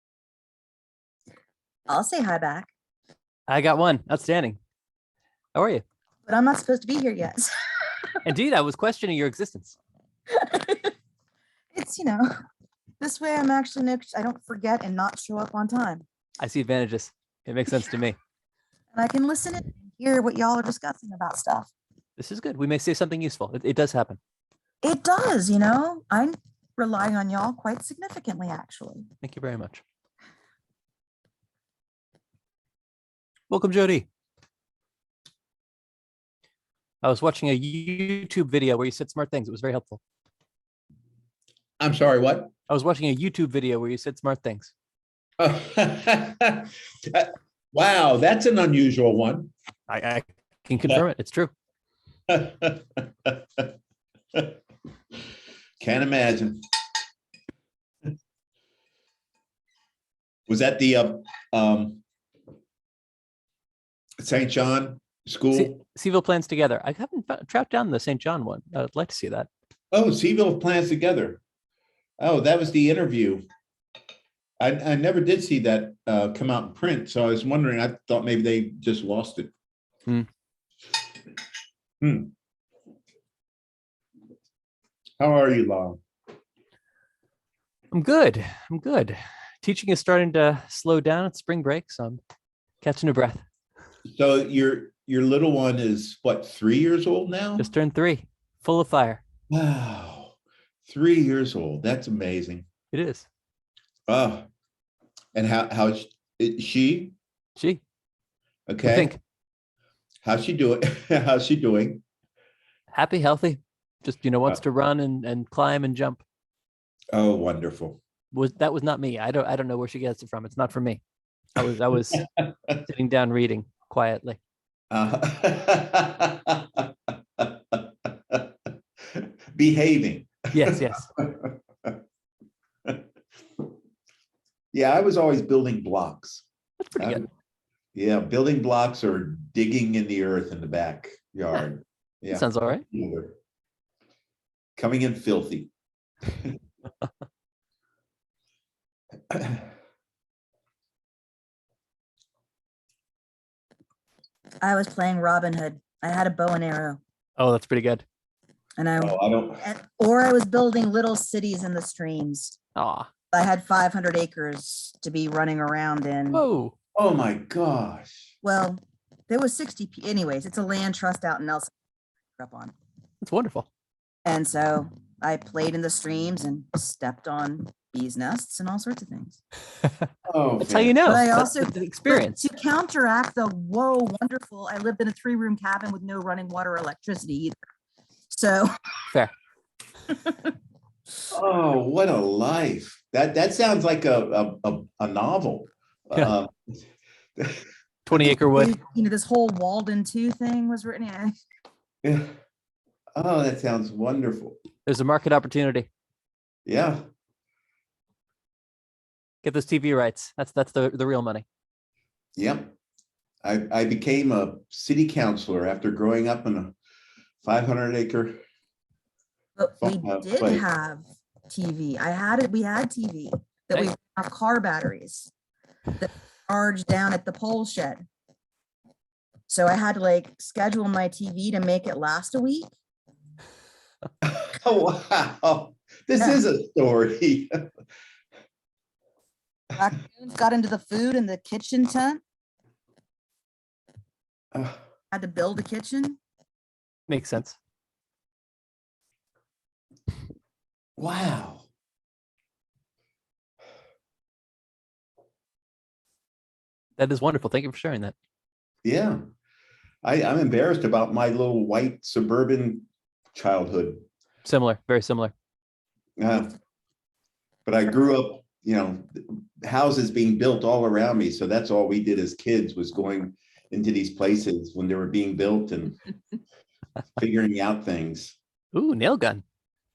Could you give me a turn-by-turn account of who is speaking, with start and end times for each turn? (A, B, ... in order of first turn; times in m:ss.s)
0:01.9-0:02.7 A
0:03.5-0:04.6 B
0:05.5-0:05.8 B
0:06.2-0:07.5 A
0:08.2-0:09.7 B
0:10.3-0:10.9 A
0:11.7-0:12.3 A
0:13.0-0:16.0 A
0:16.4-0:18.2 B
0:18.9-0:21.7 A
0:22.2-0:24.2 B
0:24.8-0:29.1 A
0:29.2-0:29.8 B
0:33.5-0:34.1 B
0:37.0-0:40.0 B
0:41.8-0:42.5 C
0:42.7-0:44.7 B
0:45.4-0:49.5 C
0:49.9-0:51.5 B
0:52.3-0:53.7 C
0:55.8-0:56.6 C
1:00.5-1:02.0 C
1:04.2-1:05.8 C
1:05.5-1:09.5 B
1:09.9-1:11.4 C
1:12.2-1:13.4 C
1:14.6-1:19.5 C
1:22.0-1:22.3 C
1:25.2-1:26.0 C
1:27.9-1:32.2 B
1:32.8-1:33.4 B
1:34.1-1:37.6 C
1:37.6-1:39.2 B
1:39.5-1:42.7 C
1:42.9-1:43.2 B
1:44.1-1:44.5 C
1:45.3-1:47.1 C
1:48.7-1:49.2 C
1:48.8-1:49.2 B
1:50.2-1:52.0 C
1:52.9-1:56.2 B
1:57.1-1:58.0 C
1:58.3-2:01.0 B
2:01.5-2:04.4 B
2:04.9-2:08.5 C
2:09.1-2:12.0 C
2:10.5-2:11.1 B
2:14.7-2:16.4 C
2:16.9-2:17.2 B
2:17.0-2:17.3 C
2:17.9-2:23.4 C
2:22.3-2:22.8 B
2:24.8-2:25.7 C
2:26.3-2:26.5 C
2:29.3-2:29.6 C
2:34.6-2:37.0 A
2:37.4-2:38.0 B
2:38.8-2:42.6 A
2:39.0-2:39.6 C
2:42.8-2:43.1 B
2:43.3-2:46.4 A
2:46.3-2:46.7 B
2:46.9-2:48.3 C
2:48.4-2:51.7 A
2:52.4-2:52.7 A
2:53.2-2:53.7 B
2:54.2-2:59.4 A
3:00.3-3:01.0 C
3:00.6-3:02.5 B
3:01.0-3:07.6 A
3:08.3-3:08.7 A
3:10.1-3:10.5 A
3:11.3-3:16.8 C
3:18.0-3:18.8 B
3:18.4-3:21.3 A
3:22.0-3:22.3 C
3:23.1-3:24.6 C
3:24.8-3:25.9 B
3:26.6-3:27.0 C
3:29.4-3:31.4 B
3:32.4-3:32.7 C
3:33.4-3:36.7 C
3:37.4-3:38.4 C
3:39.6-3:45.3 A
3:39.8-3:40.6 C
3:46.0-3:48.0 A
3:49.5-3:52.7 A
3:54.2-3:57.6 C
3:59.7-4:02.2 A
4:04.5-4:04.8 C
4:05.1-4:06.2 A
4:07.1-4:07.6 B
4:11.0-4:11.7 C
4:17.0-4:18.1 B
4:18.8-4:19.2 C
4:20.0-4:24.0 C
4:24.4-4:25.3 B
4:26.2-4:26.6 C
4:27.6-4:36.0 C
4:37.2-4:38.4 C
4:38.7-4:39.4 B